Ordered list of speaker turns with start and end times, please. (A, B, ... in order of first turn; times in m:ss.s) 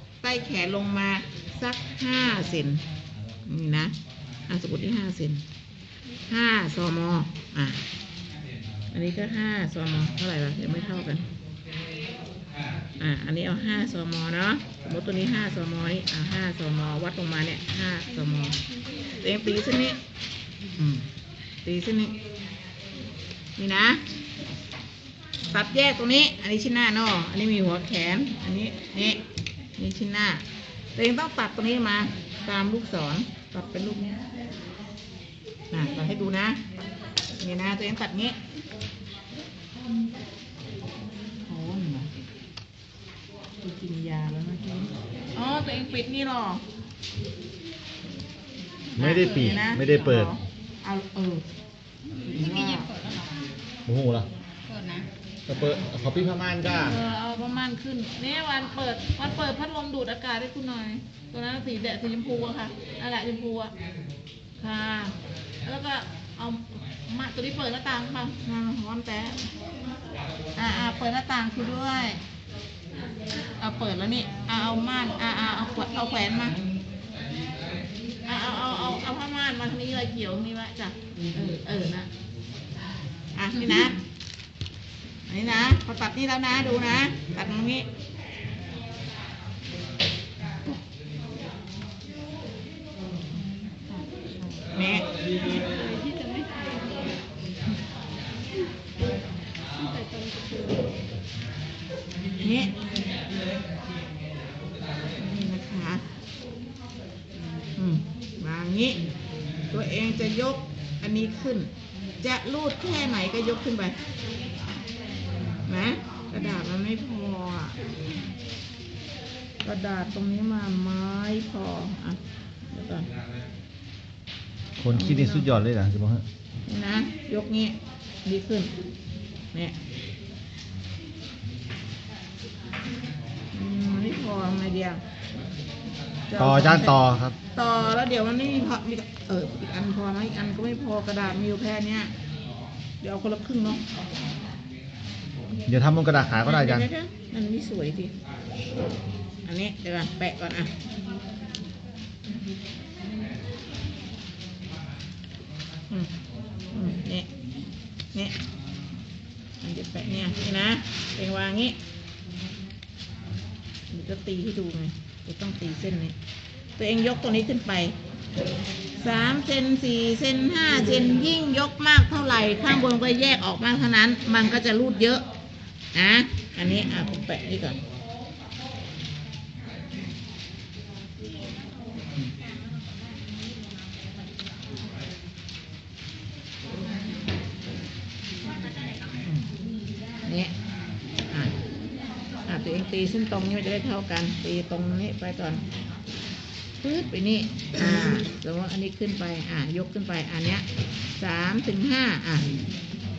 0:00.2-0:02.8 A
0:03.5-0:03.9 A
0:04.5-0:05.4 A
0:06.3-0:07.8 A
0:08.9-0:11.3 A
0:13.0-0:18.6 A
0:19.2-0:20.0 A
0:20.8-0:21.1 A
0:21.6-0:22.2 A
0:23.6-0:24.0 A
0:25.5-0:29.2 A
0:29.8-0:30.4 A
0:31.0-0:34.2 A
0:35.7-0:36.6 A
0:37.4-0:38.4 A
0:41.5-0:42.1 A
0:43.6-0:46.6 A
0:49.0-0:50.3 B
0:49.0-0:51.4 A
0:49.0-0:49.8 C
0:52.3-0:52.9 A
0:52.3-0:53.4 C
0:53.9-0:54.3 B
0:54.7-0:55.1 C
0:55.5-0:57.0 B
0:56.8-1:03.7 A
1:04.6-1:09.4 A
1:10.6-1:12.2 A
1:13.6-1:16.6 A
1:18.3-1:22.1 A
1:23.4-1:24.0 A
1:25.3-1:27.9 A
1:33.4-1:34.7 C
1:34.7-1:35.1 A
1:35.4-1:37.0 C
1:39.8-1:40.9 C
1:42.4-1:42.7 A
1:45.2-1:46.0 A
1:47.8-1:49.0 A
1:49.7-1:51.7 A
1:52.2-1:54.0 A
1:55.7-1:57.8 A
1:59.6-2:02.2 A
2:02.7-2:03.1 A
2:04.8-2:06.2 B
2:04.9-2:05.5 A
2:06.7-2:08.7 A
2:13.5-2:15.0 A
2:16.3-2:17.0 A
2:16.4-2:17.4 B
2:17.5-2:22.1 A
2:23.0-2:23.8 A
2:25.7-2:26.9 B
2:26.4-2:28.1 A
2:29.5-2:30.7 A
2:36.7-2:37.3 A
2:39.6-2:41.8 A
2:43.9-2:46.1 A
2:46.8-2:48.0 A
2:49.0-2:55.2 A
2:55.9-2:57.8 A
3:09.2-3:09.5 A
3:10.2-3:10.5 A
3:12.5-3:15.6 A
3:16.8-3:20.6 A
3:21.2-3:22.5 A